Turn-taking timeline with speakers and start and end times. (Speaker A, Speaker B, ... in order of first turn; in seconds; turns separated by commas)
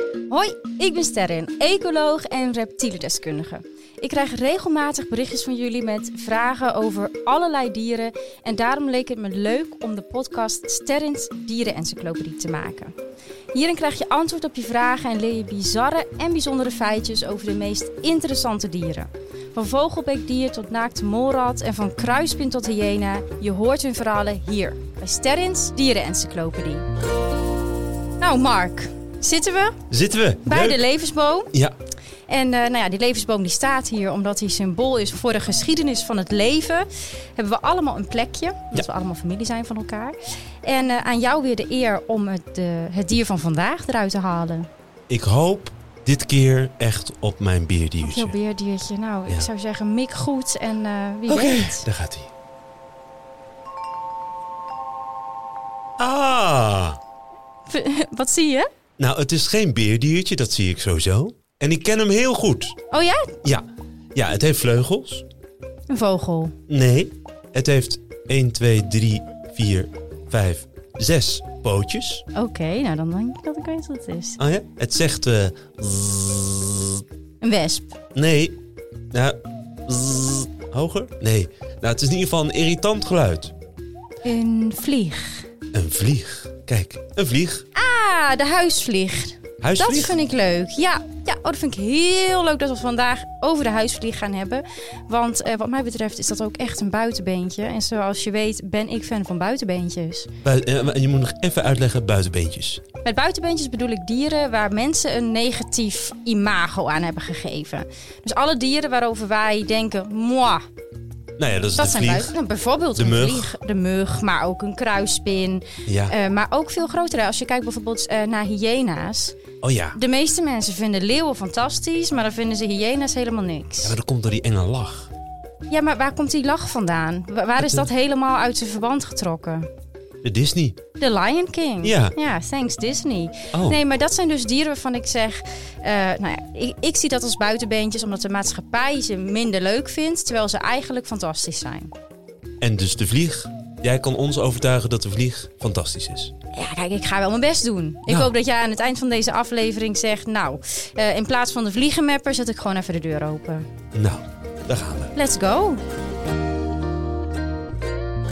Speaker A: 0.3-12.9, Speaker A: 13.5-26.8, Speaker A: 28.2-29.8, Speaker B: 29.9-30.8, Speaker A: 30.4-31.5, Speaker A: 32.3-44.7, Speaker B: 45.1-48.3, Speaker A: 48.0-51.9, Speaker B: 51.3-52.3, Speaker B: 56.0-57.0, Speaker A: 57.7-58.7, Speaker B: 59.0-62.7, Speaker A: 62.9-63.3, Speaker B: 63.4-65.2, Speaker A: 65.9-66.5, Speaker B: 66.7-72.2, Speaker A: 72.3-74.4, Speaker B: 74.4-77.0, Speaker A: 77.4-78.0, Speaker B: 78.1-78.6, Speaker B: 79.1-83.5, Speaker A: 84.2-85.5, Speaker B: 85.7-87.7, Speaker A: 87.7-100.3, Speaker B: 89.6-90.1, Speaker B: 100.4-102.8, Speaker A: 103.0-110.6, Speaker B: 111.4-112.3, Speaker A: 111.8-119.4, Speaker B: 113.0-113.5, Speaker B: 115.8-116.1, Speaker B: 119.6-120.0, Speaker A: 119.9-123.9, Speaker B: 123.8-125.1, Speaker A: 125.7-129.7, Speaker B: 127.6-127.9, Speaker B: 130.2-130.8, Speaker A: 131.0-141.9, Speaker B: 131.8-132.1, Speaker B: 133.5-133.8, Speaker B: 142.6-146.3, Speaker A: 146.5-153.7, Speaker B: 148.1-148.3, Speaker B: 153.9-155.1, Speaker A: 155.1-155.8